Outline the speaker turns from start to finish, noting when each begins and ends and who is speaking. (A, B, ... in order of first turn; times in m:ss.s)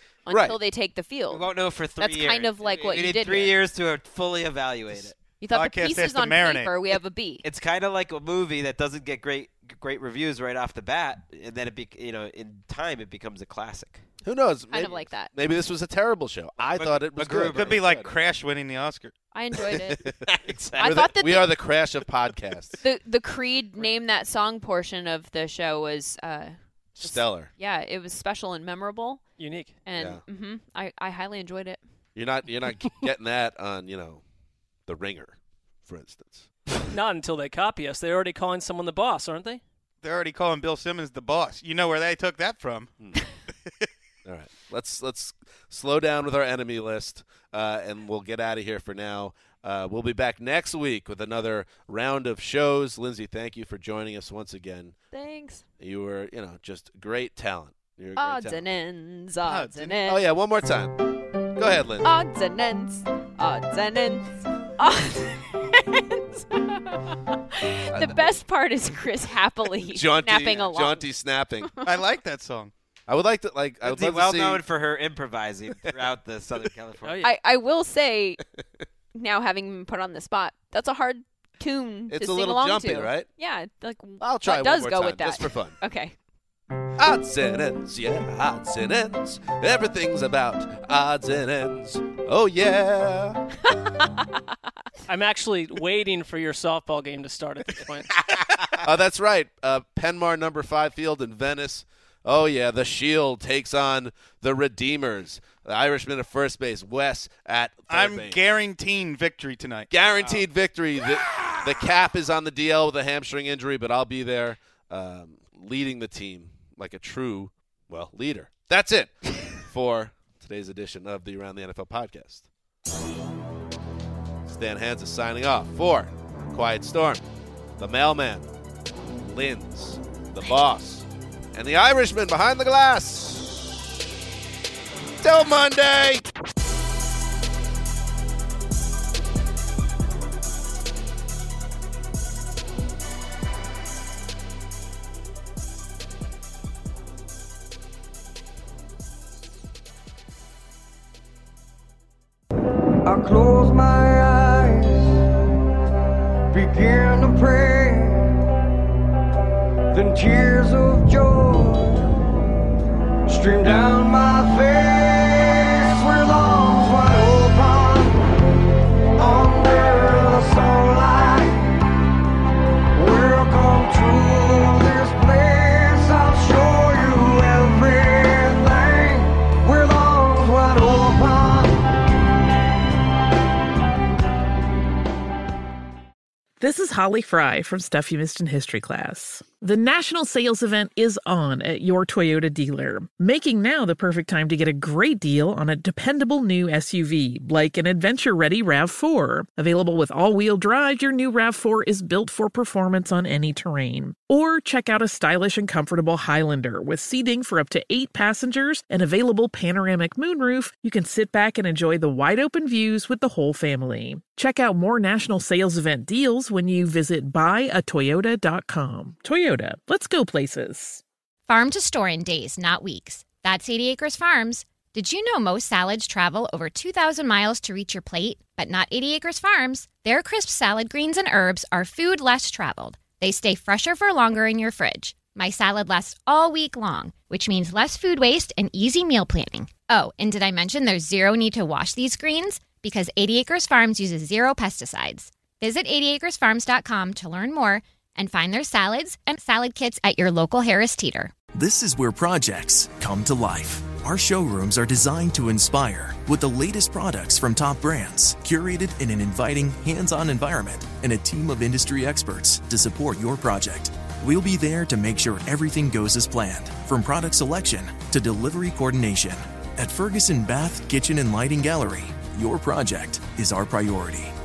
0:00.2-0:01.5 A
0:00.3-0:00.6 B
0:01.3-0:05.2 C
0:02.0-0:03.5 A
0:05.4-0:07.4 A
0:05.5-0:06.7 D
0:07.4-0:14.0 C
0:14.2-0:18.1 B
0:14.7-0:15.3 A
0:16.7-0:17.8 C
0:17.3-0:19.1 D
0:19.3-0:20.0 A
0:19.6-0:22.8 B
0:20.3-0:21.1 C
0:20.7-0:21.5 A
0:22.8-0:29.2 A
0:27.0-0:27.5 B
0:29.4-0:29.8 E
0:29.8-0:31.8 A
0:29.9-0:30.2 B
0:32.1-0:34.2 B
0:34.9-0:36.5 B
0:36.9-0:39.6 E
0:40.0-0:42.9 D
0:44.2-0:54.9 B
0:55.1-0:55.6 A
0:55.8-0:58.6 B
0:58.2-1:00.2 A
0:59.4-1:00.0 D
1:00.0-1:01.0 B
1:01.5-1:02.1 B
1:02.0-1:11.1 A
1:07.9-1:08.4 B
1:09.9-1:11.7 B
1:11.8-1:12.7 D
1:13.1-1:14.6 B
1:13.8-1:17.2 C
1:17.0-1:17.3 E
1:17.2-1:18.4 A
1:19.1-1:26.1 A
1:22.1-1:23.3 B
1:24.2-1:25.8 B
1:27.0-1:33.5 B
1:33.7-1:34.4 A
1:35.1-1:38.2 E
1:38.8-1:48.4 B
1:47.9-1:49.9 D
1:49.9-2:02.5 B
2:04.4-2:07.2 B
2:07.8-2:08.5 B
2:09.2-2:13.6 B
2:15.2-2:16.2 B
2:33.0-2:35.2 F
2:36.5-2:38.4 F
2:39.9-2:42.1 F
2:43.3-2:48.3 F
2:49.2-2:51.8 F
2:52.9-3:01.8 F
3:06.6-3:41.0 G
3:41.5-4:11.4 H
4:11.5-4:34.3 I